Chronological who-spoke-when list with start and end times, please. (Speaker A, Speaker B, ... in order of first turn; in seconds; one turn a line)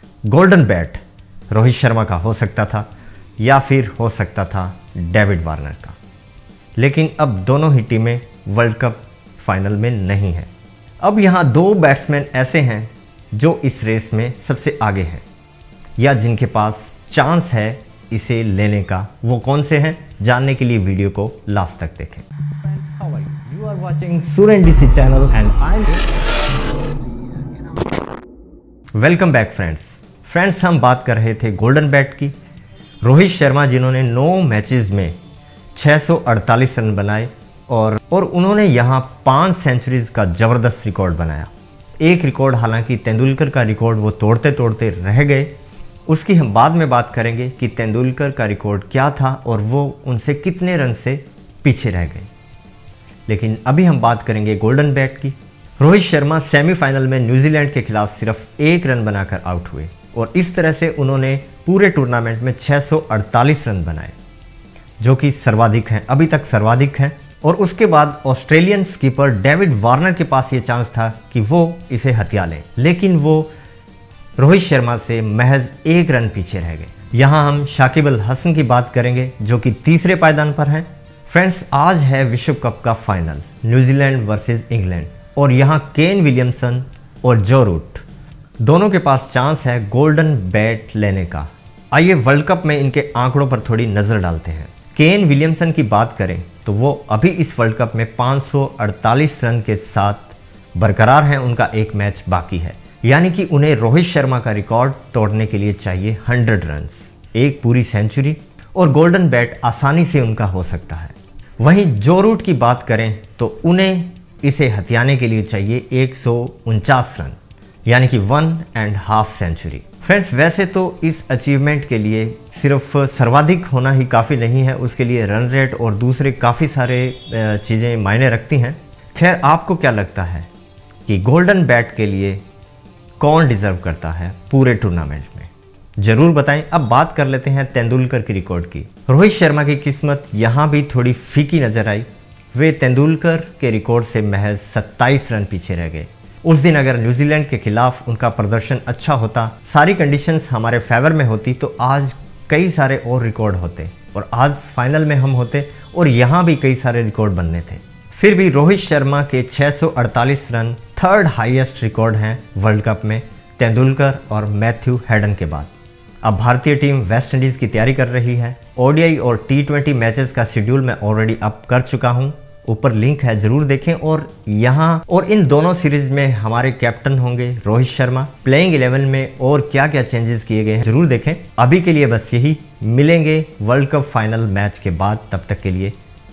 Speaker A: 0.3-2.9
Speaker A: 3.4-6.0
Speaker A: 6.8-10.5
Speaker A: 11.0-15.2
Speaker A: 16.0-26.1
Speaker A: 29.0-32.3
Speaker A: 33.0-35.1
Speaker A: 35.8-45.5
Speaker A: 46.1-52.3
Speaker A: 53.3-64.2
Speaker A: 65.0-73.5
Speaker A: 74.4-88.0
Speaker A: 88.6-130.5
Speaker A: 131.1-132.4
Speaker A: 133.2-165.7
Speaker A: 166.2-186.0